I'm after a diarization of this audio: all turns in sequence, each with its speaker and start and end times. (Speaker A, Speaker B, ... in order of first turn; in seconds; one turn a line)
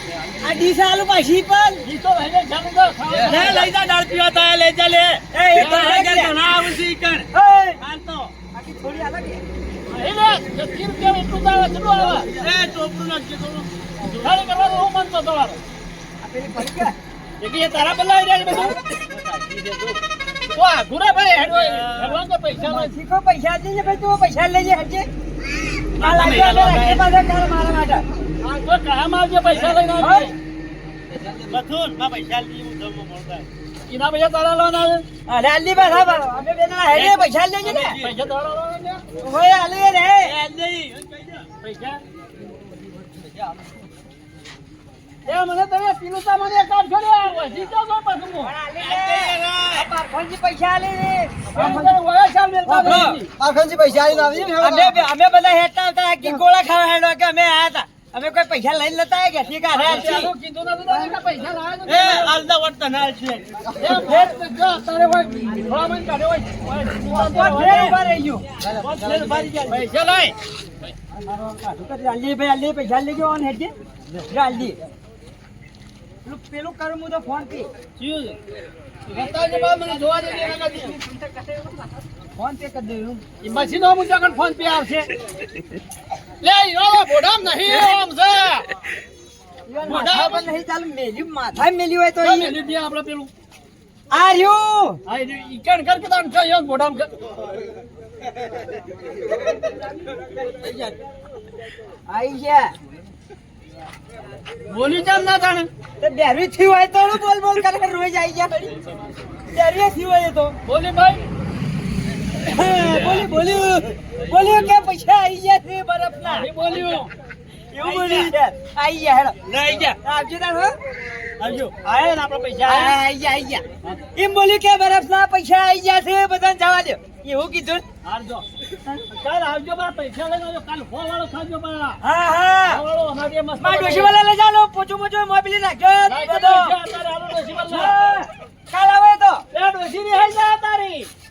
Speaker A: 0.4-1.8
Speaker B: 1.8-3.6
Speaker C: 3.2-8.3
Speaker A: 5.3-6.4
Speaker A: 7.3-7.8
Speaker A: 8.5-9.4
Speaker B: 9.9-12.3
Speaker C: 12.3-13.7
Speaker B: 14.1-15.6
Speaker A: 16.2-17.0
Speaker B: 17.4-18.8
Speaker B: 19.3-19.8
Speaker B: 20.5-22.9
Speaker C: 21.5-22.2
Speaker A: 22.6-25.1
Speaker A: 26.0-28.1
Speaker B: 26.0-27.0
Speaker C: 26.1-26.8
Speaker B: 28.4-30.4
Speaker A: 29.8-30.3
Speaker D: 31.1-31.6
Speaker C: 31.5-33.5
Speaker B: 33.9-35.0
Speaker A: 35.3-38.0
Speaker B: 37.0-39.0
Speaker C: 37.7-38.1
Speaker A: 39.2-40.4
Speaker C: 40.2-41.5
Speaker B: 41.6-42.0
Speaker B: 45.3-48.5
Speaker A: 48.4-52.0
Speaker C: 48.8-49.9
Speaker B: 51.5-53.3
Speaker A: 52.6-53.2
Speaker D: 53.4-55.0
Speaker A: 54.6-60.3
Speaker B: 59.7-62.3
Speaker C: 61.9-63.4
Speaker B: 63.8-68.0
Speaker A: 67.1-68.5
Speaker D: 68.6-69.3
Speaker C: 68.8-69.8
Speaker B: 69.0-70.3
Speaker A: 71.3-74.8
Speaker A: 76.2-77.7
Speaker B: 78.0-78.4
Speaker B: 79.1-81.0
Speaker A: 80.8-81.8
Speaker A: 82.4-83.2
Speaker B: 83.4-85.1
Speaker B: 86.4-88.7
Speaker A: 89.7-92.6
Speaker B: 89.8-90.5
Speaker B: 92.2-93.3
Speaker A: 94.1-95.0
Speaker B: 95.1-97.1
Speaker D: 100.6-100.9
Speaker A: 102.1-102.7
Speaker B: 104.7-105.7
Speaker A: 106.0-108.8
Speaker A: 109.5-110.6
Speaker B: 110.7-111.2
Speaker A: 112.4-116.5
Speaker B: 116.2-117.1
Speaker C: 117.7-118.3
Speaker A: 117.8-119.4
Speaker C: 119.5-120.0
Speaker A: 120.0-120.7
Speaker C: 121.4-121.7
Speaker B: 121.8-123.0
Speaker A: 122.7-123.6
Speaker A: 124.2-127.8
Speaker B: 128.0-128.5
Speaker B: 129.1-132.0
Speaker A: 132.0-132.8
Speaker B: 132.7-134.1
Speaker A: 133.6-136.8
Speaker B: 136.1-137.9
Speaker A: 137.7-139.5
Speaker B: 139.5-141.1